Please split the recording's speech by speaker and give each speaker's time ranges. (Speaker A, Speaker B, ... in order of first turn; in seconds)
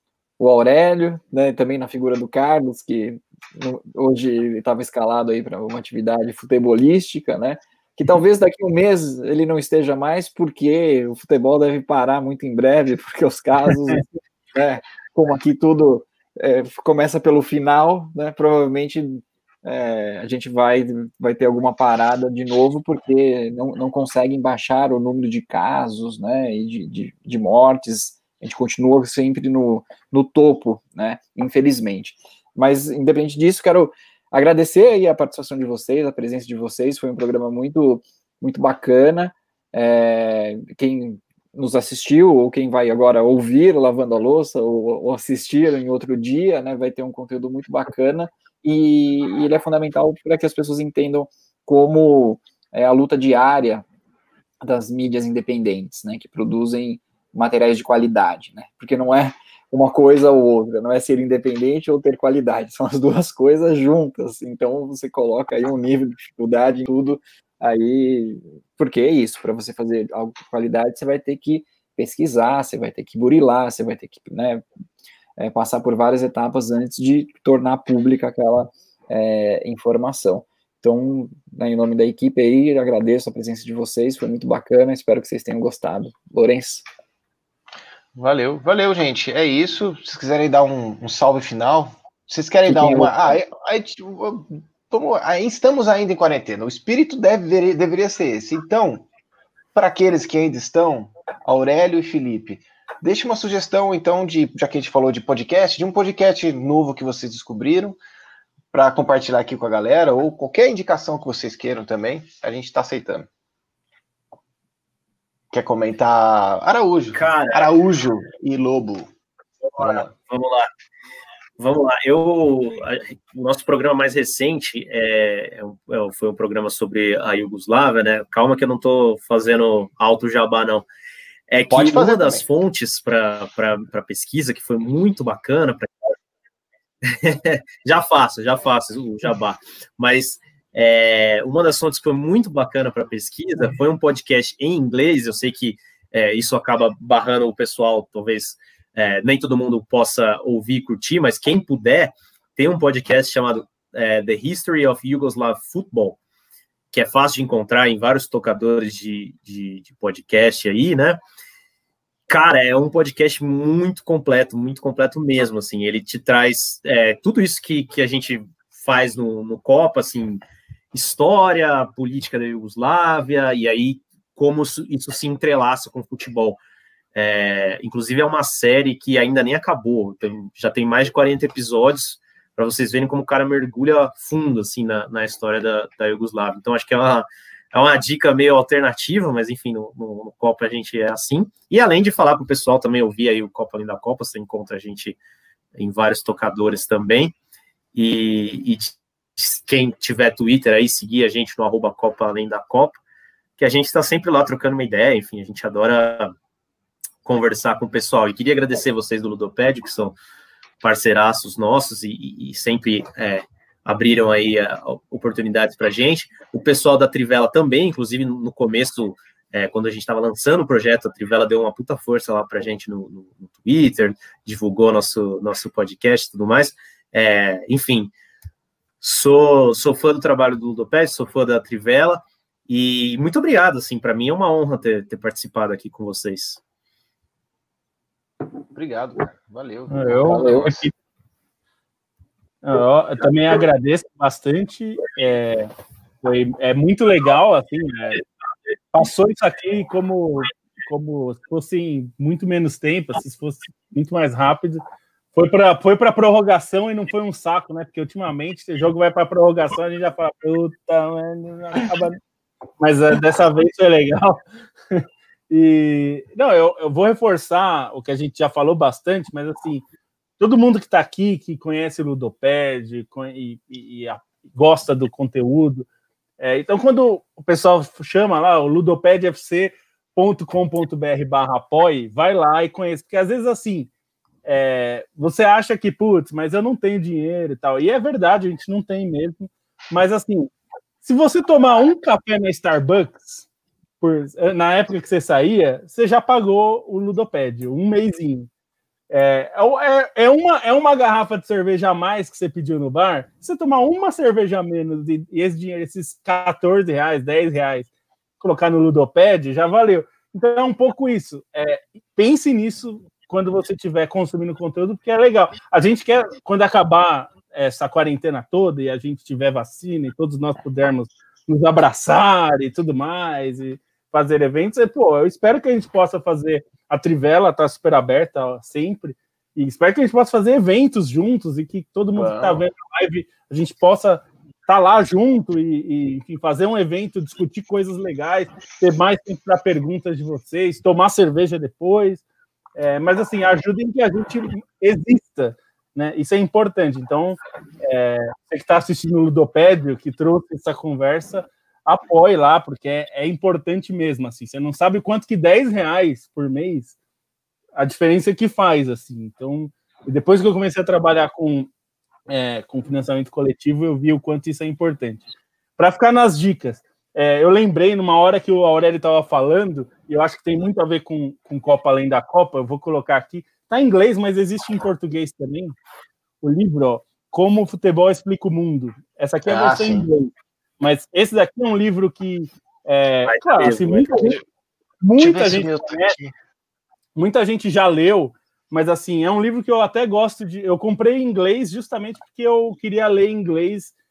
Speaker A: 0.4-53.9, 54.6-74.7, 75.4-86.9, 92.7-93.1, 240.3-240.6
Speaker B: 88.2-99.0, 99.7-108.0, 108.7-113.3, 115.5-119.1, 119.8-120.1, 131.7-132.4, 238.7-240.8, 332.1-332.6, 379.5-380.1, 385.2-386.3
Speaker C: 117.1-117.7, 119.7-120.7, 121.6-130.9, 131.5-135.9, 137.0-156.2, 156.9-161.2, 162.3-170.4, 170.9-176.6, 177.1-195.2, 195.8-197.3, 197.9-203.0, 203.6-206.3, 207.2-210.2, 210.8-228.1, 229.0-236.6, 383.3-384.4
Speaker D: 239.9-240.9, 242.6-245.7, 246.2-248.2, 248.9-254.8, 255.3-262.2, 262.8-264.4, 264.9-269.8, 270.4-275.9, 276.4-283.9, 284.4-290.5, 291.0-293.5, 294.0-298.5, 299.1-307.9, 308.4-342.2, 342.8-356.9, 357.8-361.7, 362.3-365.2, 365.8-375.8, 376.4-384.4, 385.0-386.1, 387.1-393.9